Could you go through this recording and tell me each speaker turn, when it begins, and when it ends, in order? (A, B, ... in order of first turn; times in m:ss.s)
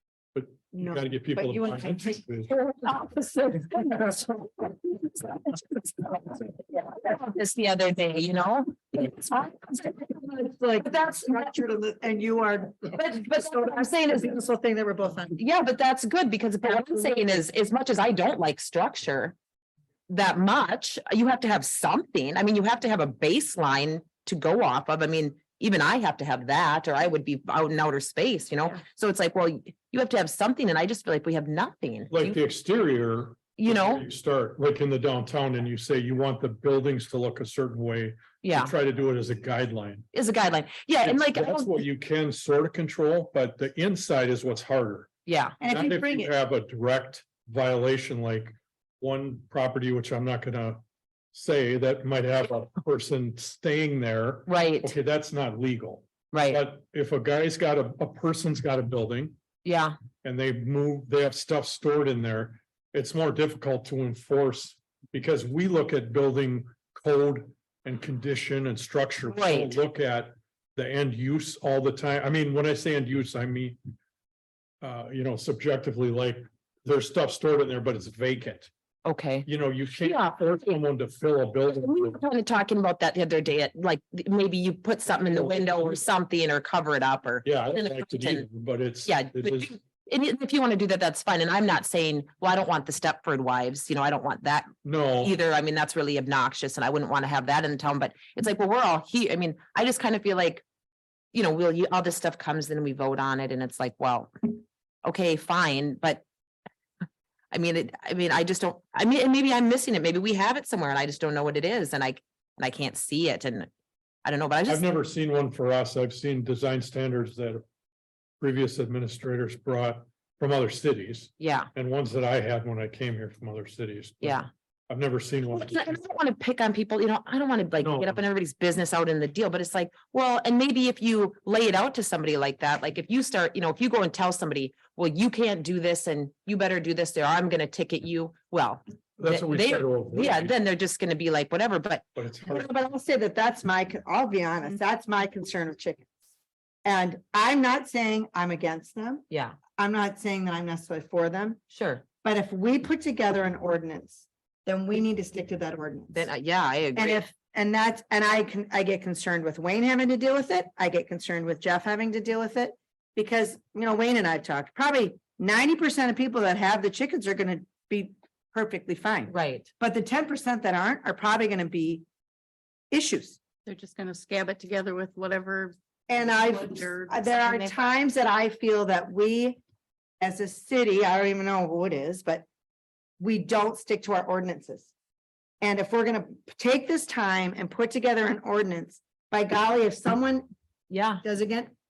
0:00.3-0:02.5 A
0:00.7-0:02.2 B
0:02.5-0:04.3 C
0:03.8-0:04.1 B
0:05.1-0:05.6 C
0:06.3-0:09.8 C
0:08.9-0:15.4 B
0:10.8-0:11.5 C
0:12.9-0:14.4 C
0:15.4-0:19.4 C
0:20.1-0:32.4 C
0:32.1-0:40.0 A
0:33.6-0:34.0 C
0:38.4-0:38.7 C
0:40.1-0:41.8 C
0:41.0-0:45.1 A
0:45.2-0:45.6 C
0:45.6-0:46.3 B
0:45.6-0:50.8 A
0:51.3-0:59.4 A
0:54.4-0:54.9 C
0:56.3-0:56.6 C
0:59.6-1:00.0 C
1:00.2-1:13.8 A
1:09.3-1:09.8 C
1:14.8-1:18.7 A
1:19.0-1:20.8 C
1:19.4-1:22.2 A
1:21.7-1:28.4 C
1:25.2-1:26.1 A
1:27.4-1:29.7 A
1:29.0-1:40.6 C
1:34.8-1:35.3 A
1:41.3-1:46.2 C
1:47.5-1:53.7 C
1:54.2-1:54.9 C
1:54.7-1:57.6 A
1:58.4-2:06.0 A
2:01.4-2:01.7 C
2:04.2-2:04.5 C
2:05.5-2:22.0 C
2:07.8-2:08.2 A
2:19.2-2:20.5 A
2:22.2-2:22.7 A
2:22.5-2:26.1 B
2:26.8-2:29.2 B
2:29.3-2:29.6 C
2:29.8-2:31.6 B
2:31.7-2:32.0 C
2:32.2-2:36.3 B
2:36.1-2:37.2 C
2:36.9-2:52.0 B
2:49.3-2:49.7 C
2:52.9-2:53.4 B
2:53.6-2:57.8 D
2:56.1-2:59.6 B
3:00.2-3:02.4 B
3:03.2-3:04.9 B
3:05.6-3:10.5 B
3:10.9-3:11.2 C
3:11.2-3:11.7 B